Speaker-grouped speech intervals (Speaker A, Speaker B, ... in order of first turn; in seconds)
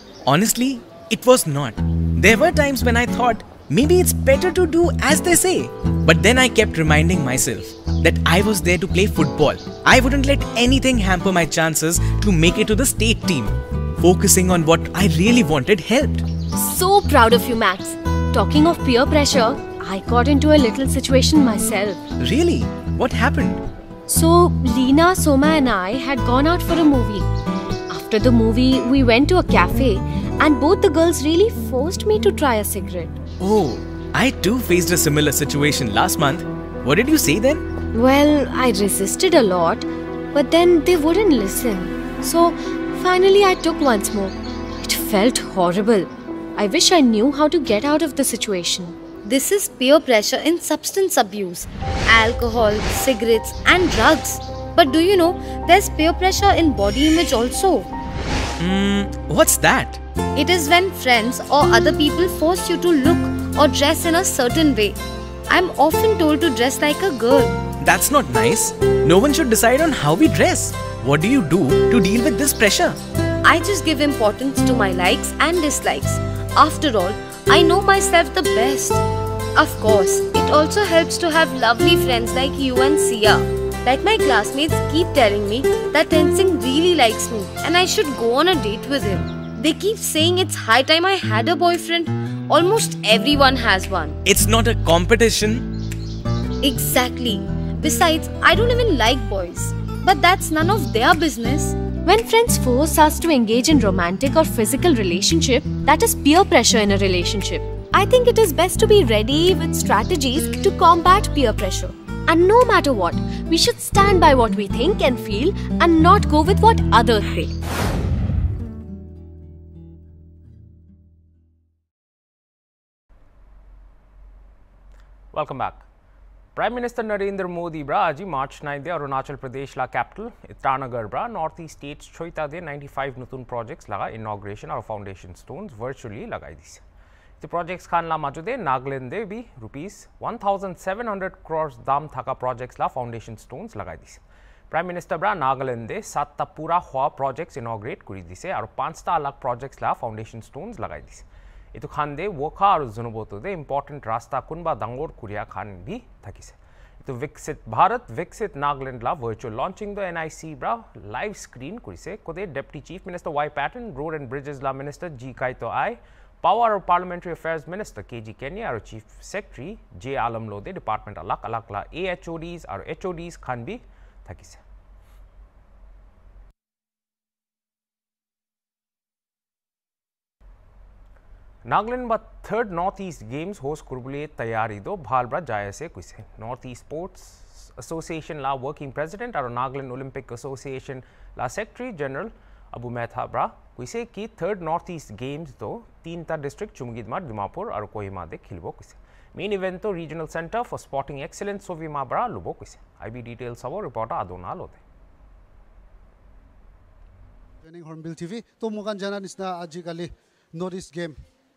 Speaker A: 0.2-16.3, 22.2-23.6, 33.4-37.7, 58.6-60.0, 67.8-73.0, 94.2-95.7
Speaker B: 16.5-22.0, 24.1-27.3, 27.9-33.2, 37.9-49.0, 102.0-117.5
Speaker C: 49.2-57.9, 60.3-67.6, 73.4-79.0, 79.5-94.2, 96.6-101.8
Speaker D: 125.3-125.8, 126.5-136.8, 137.4-174.6, 181.7-204.8
Speaker E: 207.6-211.2